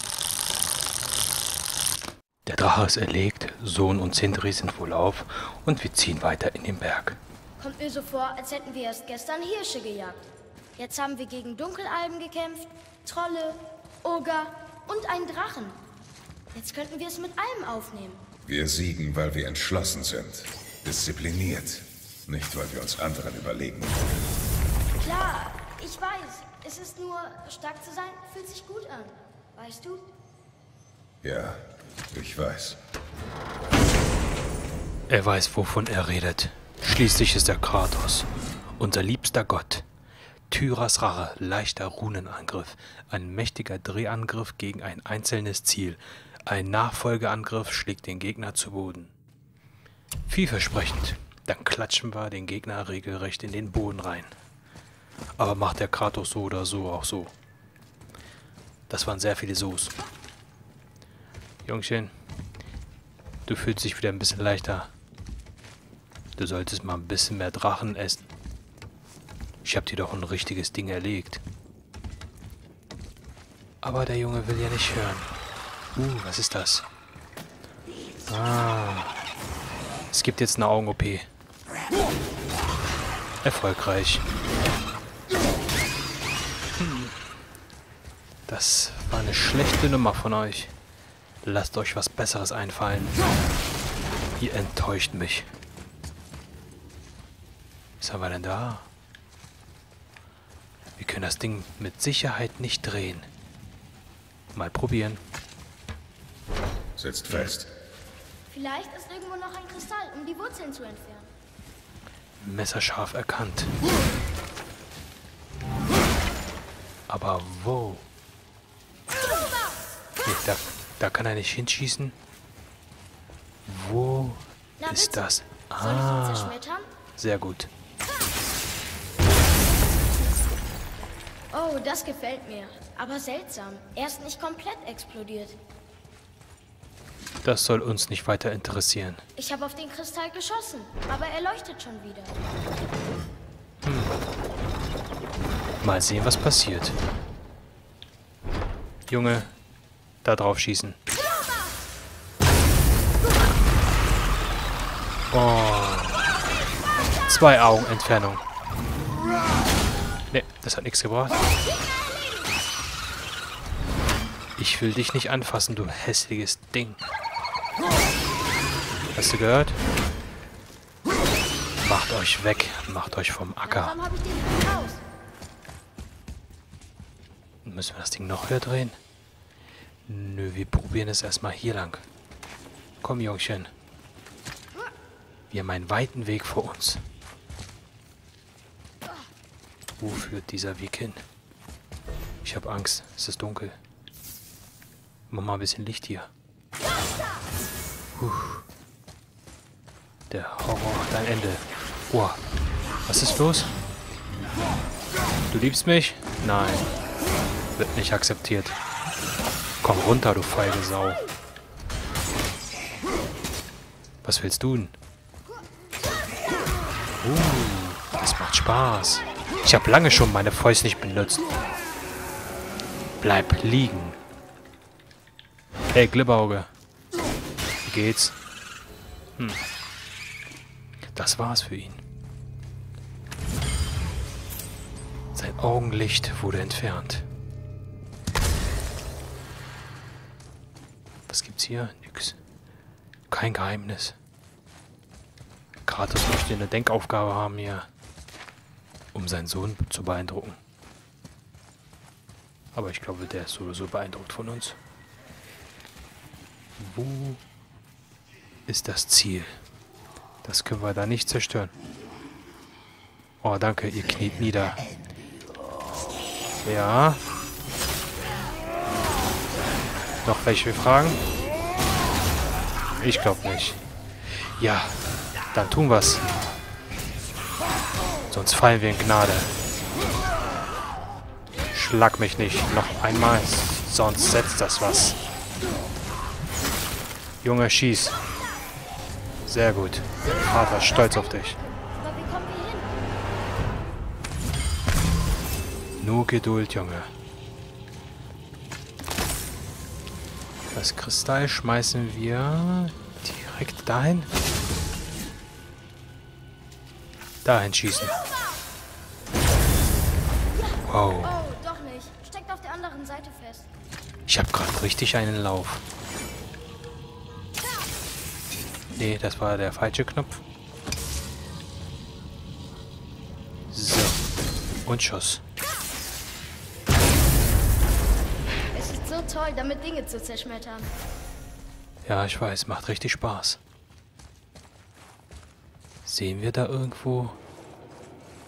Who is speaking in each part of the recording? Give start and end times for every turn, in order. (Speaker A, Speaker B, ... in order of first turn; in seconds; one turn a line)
Speaker A: 2.5-7.2
Speaker B: 7.6-15.8
Speaker B: 16.5-18.2
Speaker C: 18.4-24.1
Speaker B: 25.0-30.0
Speaker C: 31.2-32.8
Speaker A: 35.1-39.9
Speaker A: 40.5-49.1
Speaker A: 50.3-54.3
Speaker A: 55.4-57.3
Speaker A: 58.9-59.9
Speaker A: 61.6-62.1
Speaker A: 63.5-64.9
Speaker A: 66.4-68.3
Speaker A: 69.6-71.4
Speaker A: 73.8-75.3
Speaker A: 75.9-76.8
Speaker A: 78.3-79.1
Speaker A: 80.1-81.3
Speaker A: 83.4-84.2
Speaker A: 86.8-87.1
Speaker A: 88.5-90.7
Speaker A: 91.4-93.2
Speaker A: 94.4-95.5
Speaker A: 98.0-98.9
Speaker A: 101.0-103.3
Speaker A: 104.5-105.2
Speaker C: 107.0-107.7
Speaker B: 108.5-111.3
Speaker A: 112.4-113.7
Speaker A: 117.1-118.0
Speaker A: 120.2-122.1
Speaker A: 123.7-126.6
Speaker B: 124.8-126.9
Speaker A: 127.2-127.7
Speaker B: 131.5-135.6
Speaker A: 137.4-139.2
Speaker B: 139.4-142.4
Speaker A: 143.8-144.2
Speaker A: 145.8-147.0
Speaker A: 149.1-149.5
Speaker A: 150.2-151.0
Speaker A: 155.3-156.2
Speaker A: 157.3-158.4
Speaker A: 160.3-161.4
Speaker A: 164.6-167.0
Speaker A: 169.1-169.8
Speaker A: 171.8-174.0
Speaker B: 173.6-175.0
Speaker A: 177.7-179.0
Speaker A: 180.1-182.0
Speaker A: 183.0-183.7
Speaker A: 185.5-187.0
Speaker A: 190.0-191.2
Speaker A: 192.4-193.8
Speaker A: 195.3-196.3
Speaker A: 198.1-198.7
Speaker A: 200.3-202.4
Speaker A: 203.1-203.7
Speaker A: 205.5-206.9
Speaker A: 207.8-208.8
Speaker A: 209.8-211.2
Speaker A: 214.2-214.9
Speaker A: 217.2-221.4
Speaker A: 223.2-224.2
Speaker A: 225.9-226.7
Speaker A: 227.8-228.4
Speaker A: 231.1-232.0
Speaker A: 235.3-237.3
Speaker A: 241.3-242.4
Speaker A: 243.3-244.2
Speaker A: 245.9-247.9
Speaker A: 249.1-250.6
Speaker A: 252.7-254.8
Speaker A: 256.8-257.4
Speaker A: 258.7-259.6
Speaker A: 260.4-261.7
Speaker A: 263.4-264.8
Speaker A: 266.6-267.2
Speaker A: 270.2-271.2
Speaker A: 272.9-275.0
Speaker A: 275.5-276.2
Speaker A: 278.3-279.5
Speaker A: 281.7-285.2
Speaker A: 287.4-288.2
Speaker A: 289.4-291.6
Speaker B: 290.6-293.0
Speaker A: 296.0-297.1
Speaker A: 300.7-304.3
Speaker A: 307.4-308.1
Speaker B: 310.5-313.7
Speaker A: 310.8-311.4
Speaker A: 314.3-315.8
Speaker A: 318.9-320.4
Speaker A: 323.7-324.2
Speaker A: 324.9-325.4
Speaker B: 328.7-330.9
Speaker A: 332.1-333.6
Speaker A: 336.1-337.4